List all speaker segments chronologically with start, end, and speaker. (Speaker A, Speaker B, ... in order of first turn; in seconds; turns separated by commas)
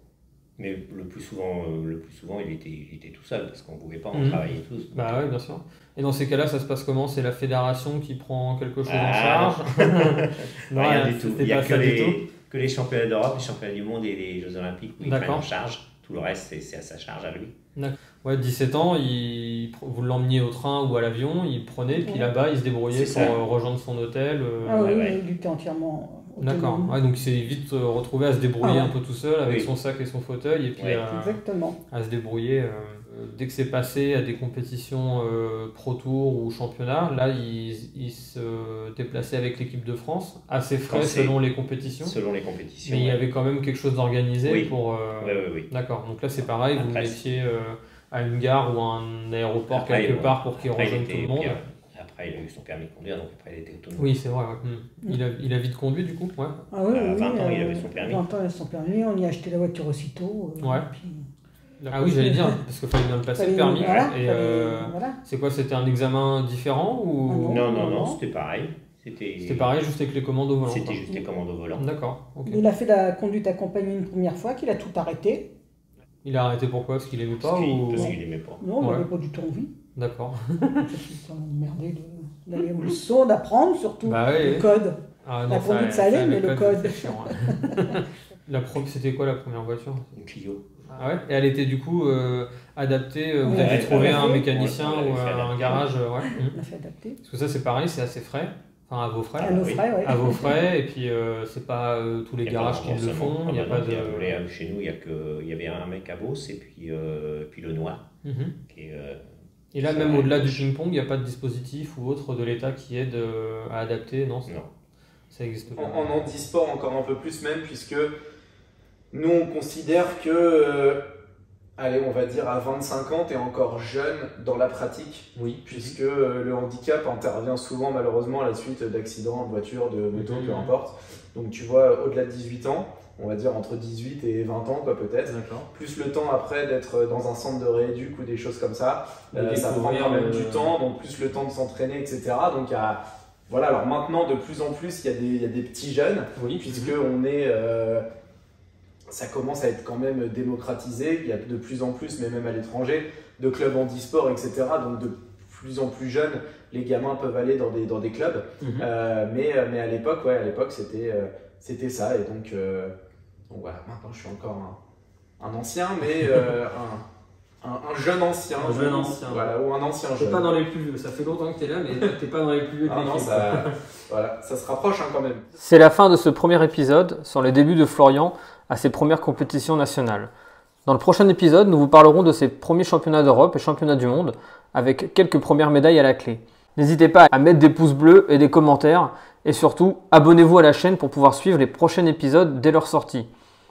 Speaker A: 0.6-5.3, Speaker B: 4.1-4.4, Speaker B: 4.9-12.2, Speaker A: 8.9-17.5, Speaker B: 15.0-15.5, Speaker B: 17.8-25.0, Speaker C: 21.9-22.3, Speaker A: 22.9-23.4, Speaker C: 24.6-27.2, Speaker A: 24.7-25.2, Speaker B: 26.4-31.4, Speaker C: 28.6-28.9, Speaker A: 29.4-29.7, Speaker C: 31.0-31.8, Speaker B: 31.9-42.2, Speaker A: 40.9-41.4, Speaker A: 41.9-43.2, Speaker B: 42.9-51.6, Speaker A: 44.4-45.7, Speaker A: 46.4-47.2, Speaker A: 49.7-54.2, Speaker B: 54.0-56.5, Speaker C: 56.7-61.3, Speaker A: 56.9-58.2, Speaker B: 61.8-67.7, Speaker C: 61.9-62.6, Speaker C: 63.3-65.2, Speaker A: 63.8-64.1, Speaker C: 67.3-68.2, Speaker A: 67.5-69.7, Speaker B: 69.4-71.0, Speaker A: 70.6-71.8, Speaker B: 71.8-72.6, Speaker C: 72.5-75.5, Speaker B: 76.2-78.1, Speaker A: 77.4-78.6, Speaker C: 78.0-79.7, Speaker B: 80.0-80.8, Speaker C: 80.8-88.0, Speaker B: 84.1-84.6, Speaker B: 85.3-90.1, Speaker A: 90.1-90.6, Speaker B: 90.9-96.5, Speaker C: 93.4-94.5, Speaker A: 93.5-95.9, Speaker C: 95.7-97.2, Speaker B: 97.3-104.4, Speaker A: 99.4-99.9, Speaker C: 99.4-100.6, Speaker A: 102.4-108.0, Speaker B: 108.2-108.5, Speaker A: 108.7-109.2, Speaker B: 109.7-114.5, Speaker A: 109.8-110.6, Speaker B: 115.3-116.1, Speaker D: 115.8-118.1, Speaker D: 119.1-121.0, Speaker D: 121.8-148.0, Speaker B: 125.4-126.0, Speaker B: 130.1-130.7, Speaker B: 135.3-135.7, Speaker B: 139.3-140.7, Speaker B: 146.4-146.9, Speaker D: 149.1-162.9, Speaker B: 158.6-158.9, Speaker D: 163.5-164.8, Speaker D: 165.4-167.0, Speaker D: 167.6-170.5, Speaker B: 168.6-169.5, Speaker B: 170.2-173.7, Speaker D: 172.9-175.4, Speaker B: 175.6-180.3, Speaker B: 180.9-193.3